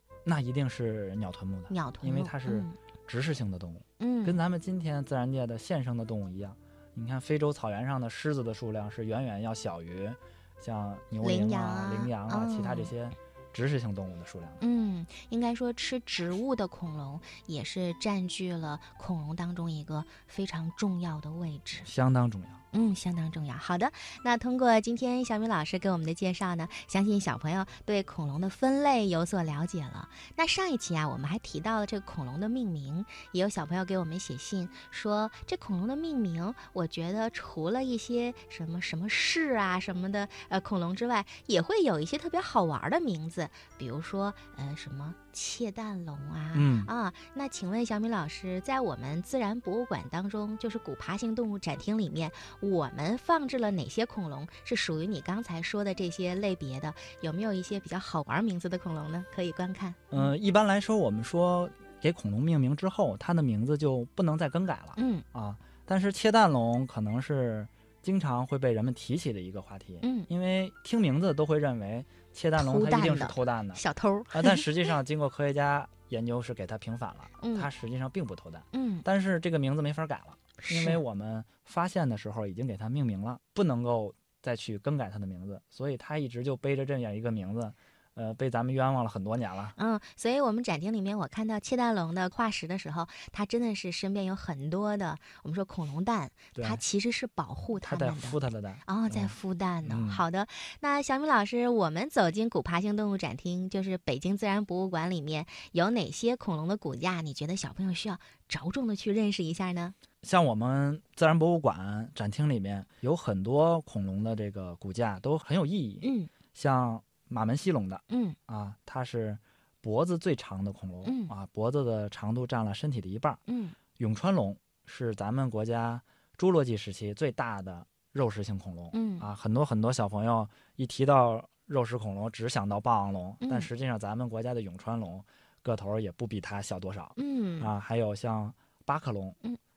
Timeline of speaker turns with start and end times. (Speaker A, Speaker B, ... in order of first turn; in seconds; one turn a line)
Speaker A: 0.2-14.6
Speaker B: 1.7-2.8
Speaker B: 4.0-4.4
Speaker B: 11.2-12.9
Speaker B: 14.6-21.9
Speaker A: 21.9-22.6
Speaker B: 22.7-60.3
Speaker A: 46.5-46.9
Speaker A: 60.1-89.8
Speaker B: 65.0-65.2
Speaker B: 70.0-70.3
Speaker B: 72.6-74.7
Speaker B: 77.4-77.7
Speaker B: 78.7-79.1
Speaker B: 80.6-81.0
Speaker B: 89.8-110.0
Speaker A: 96.5-96.8
Speaker A: 97.8-100.2
Speaker A: 110.2-123.4
Speaker B: 116.0-116.3
Speaker B: 118.1-118.4
Speaker B: 121.0-121.3
Speaker B: 123.5-123.8
Speaker A: 124.0-139.4
Speaker B: 128.9-129.3
Speaker B: 133.4-133.7
Speaker B: 137.2-137.7